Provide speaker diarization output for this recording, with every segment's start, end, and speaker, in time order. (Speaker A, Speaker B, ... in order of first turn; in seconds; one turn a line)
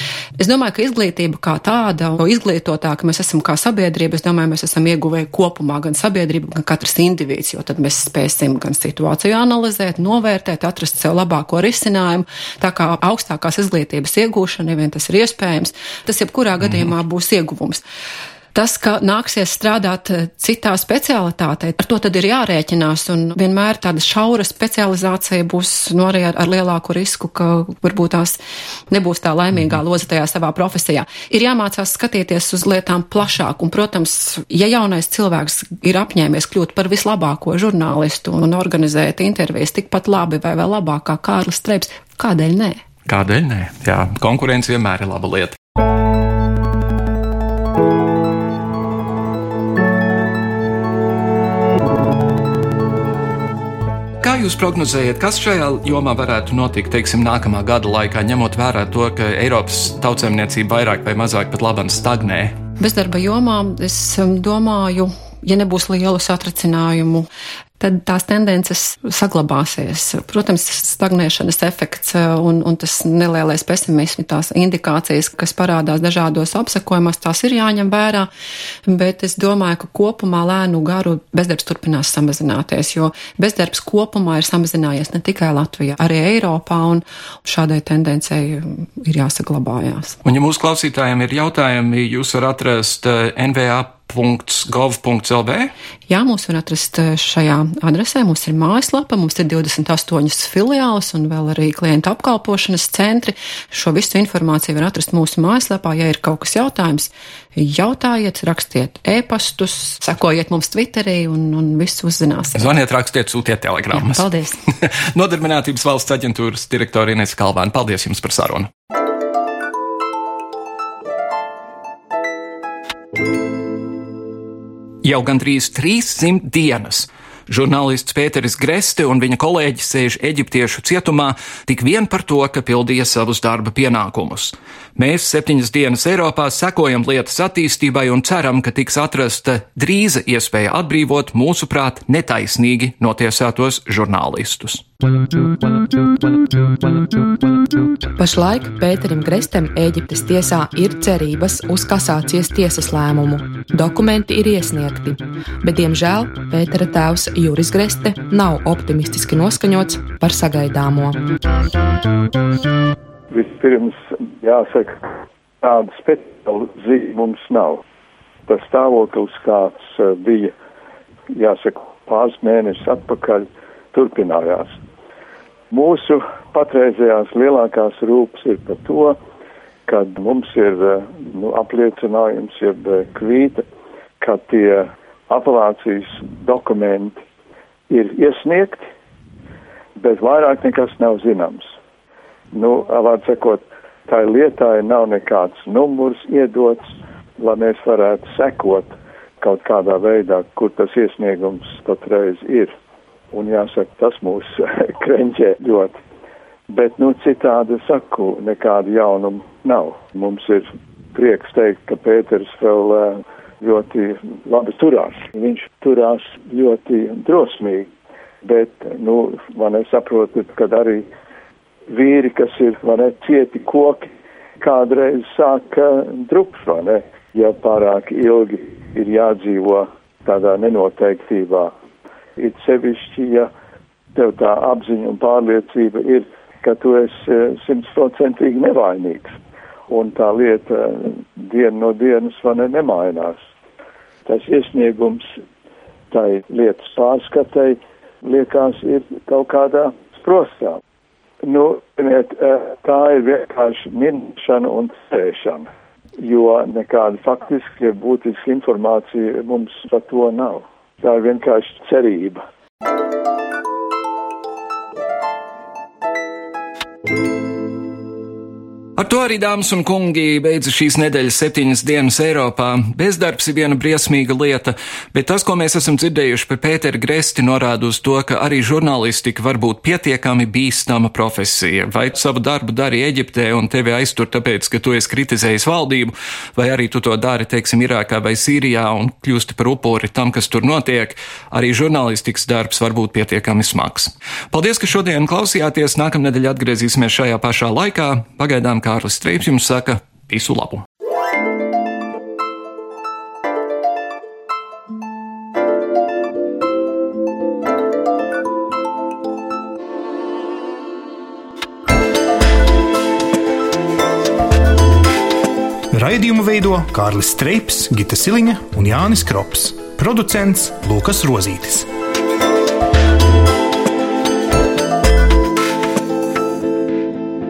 Speaker A: 0.4-17.8
Speaker A: 18.5-28.4
Speaker A: 28.9-42.8
Speaker B: 43.0-45.5
Speaker B: 54.2-62.5
Speaker A: 62.8-67.3
Speaker A: 67.8-78.3
Speaker A: 78.8-90.2
Speaker B: 90.2-95.7
Speaker A: 96.1-112.7
Speaker B: 112.5-114.2
Speaker A: 113.9-114.6
Speaker B: 114.8-118.7
Speaker B: 125.0-144.8
Speaker C: 148.2-161.2
Speaker D: 163.3-165.0
Speaker D: 165.6-167.8
Speaker D: 168.5-170.5
Speaker D: 171.3-174.8
Speaker D: 175.7-179.2
Speaker D: 179.9-183.6
Speaker D: 184.2-187.2
Speaker D: 187.9-188.8
Speaker D: 190.0-191.7
Speaker D: 192.5-196.8
Speaker D: 197.4-202.7
Speaker D: 203.3-205.9
Speaker D: 206.7-217.9
Speaker D: 218.4-221.1
Speaker D: 221.9-224.1
Speaker D: 224.6-231.7
Speaker D: 232.4-233.5
Speaker D: 234.1-239.3
Speaker D: 239.9-243.4
Speaker D: 244.2-245.2
Speaker D: 246.1-250.8
Speaker D: 251.4-255.7
Speaker D: 256.2-262.4
Speaker B: 269.0-300.8
Speaker E: 315.9-321.9